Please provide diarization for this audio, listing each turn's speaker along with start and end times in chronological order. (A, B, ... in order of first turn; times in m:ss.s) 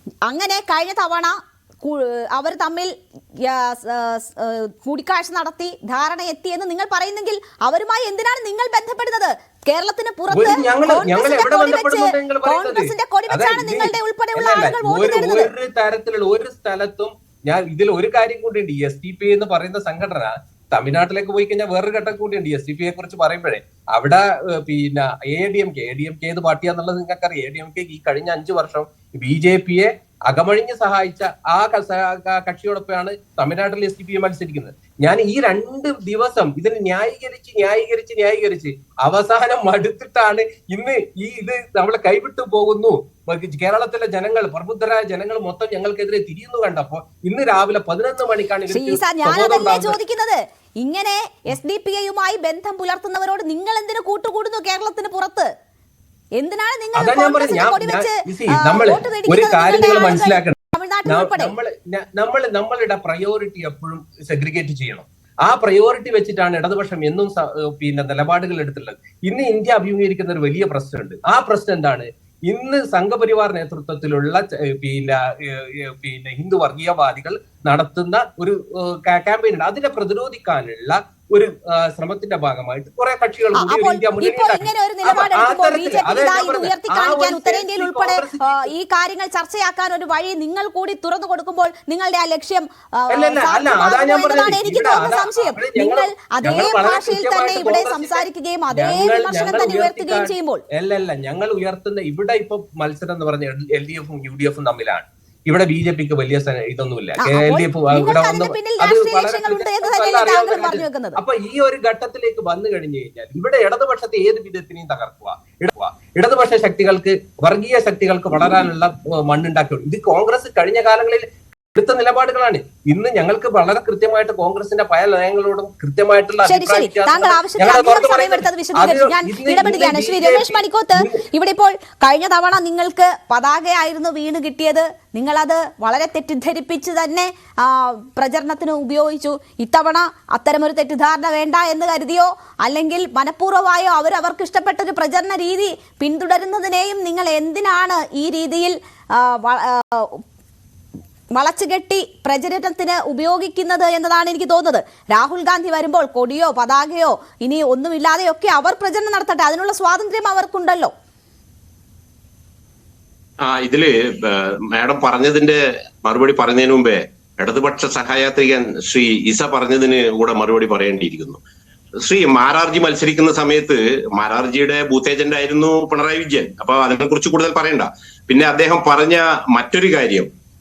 0:00.3-0:15.5 A
0:10.3-0:50.0 B
0:48.7-0:55.5 A
0:56.4-1:01.5 A
0:57.0-1:28.7 B
1:23.5-1:40.6 A
1:33.1-2:11.2 B
1:47.2-1:51.2 A
2:06.4-2:30.2 A
2:31.4-2:40.9 A
2:43.4-2:51.4 C
2:52.0-3:00.3 C